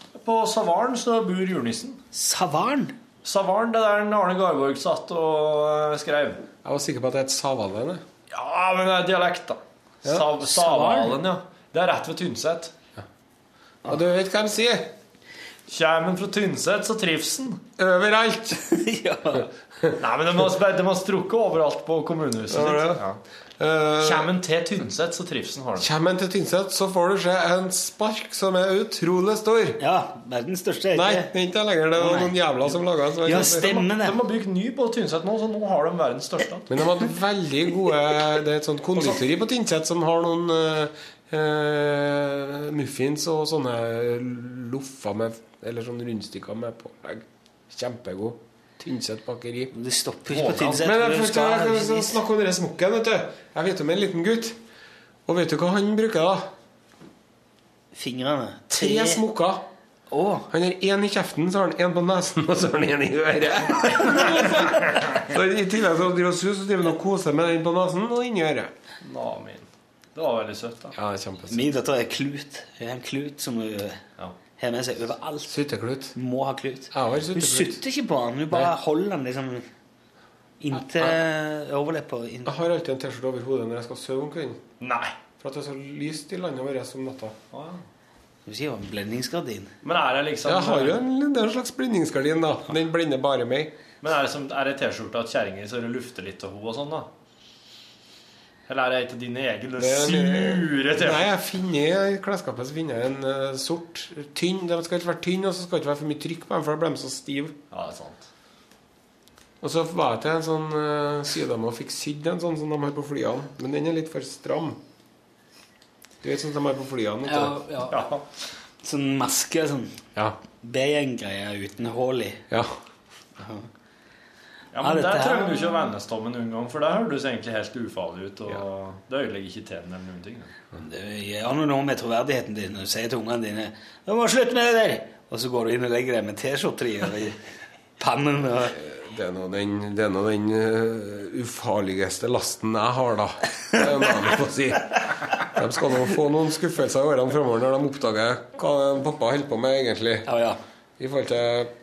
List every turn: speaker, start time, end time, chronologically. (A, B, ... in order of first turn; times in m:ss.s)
0:00.2-0:02.0 A
0:02.1-0:03.0 B
0:03.2-0:06.4 A
0:06.6-0:08.0 C
0:08.3-0:12.7 A
0:10.4-0:11.2 B
0:13.8-0:14.9 C
0:15.7-0:17.6 A
0:17.8-0:18.6 C
0:18.6-0:19.5 B
0:20.0-0:23.2 A
0:22.5-0:23.0 C
0:23.6-0:24.3 C
0:24.0-0:25.9 A
0:25.8-0:29.8 C
0:29.8-0:31.3 B
0:30.9-0:33.7 C
0:32.0-0:32.4 B
0:33.2-0:34.2 B
0:33.3-0:36.7 A
0:36.7-0:49.7 C
0:49.7-0:52.2 B
0:50.3-0:50.7 A
0:50.6-0:54.6 C
0:55.3-0:56.5 C
0:57.9-0:59.2 B
0:58.7-0:59.7 C
1:00.1-1:00.5 B
1:00.5-1:08.7 C
1:09.0-1:11.0 A
1:11.0-1:11.7 C
1:11.5-1:14.0 B
1:14.6-1:15.5 B
1:15.5-1:16.2 C
1:16.2-1:19.7 B
1:16.9-1:17.8 C
1:20.6-1:22.5 B
1:20.9-1:21.2 C
1:22.5-1:24.6 C
1:24.8-1:25.1 A
1:25.4-1:27.4 C
1:27.5-1:27.8 A
1:28.5-1:29.7 B
1:29.8-1:31.0 A
1:30.4-1:33.7 C
1:34.0-1:37.1 A
1:38.7-1:41.3 A
1:39.8-1:47.6 C
1:47.7-1:48.3 A
1:49.6-1:54.8 C
1:56.2-1:57.6 C
1:57.3-1:58.1 B
1:57.9-1:58.2 A
1:58.8-2:00.0 B
2:00.6-2:02.5 B
2:02.5-2:02.8 C
2:03.4-2:03.7 B
2:04.7-2:10.5 A
2:04.8-2:05.8 B
2:10.8-2:17.4 B
2:18.0-2:18.8 B
2:18.6-2:30.3 C
2:30.3-2:30.6 B
2:31.0-2:31.7 C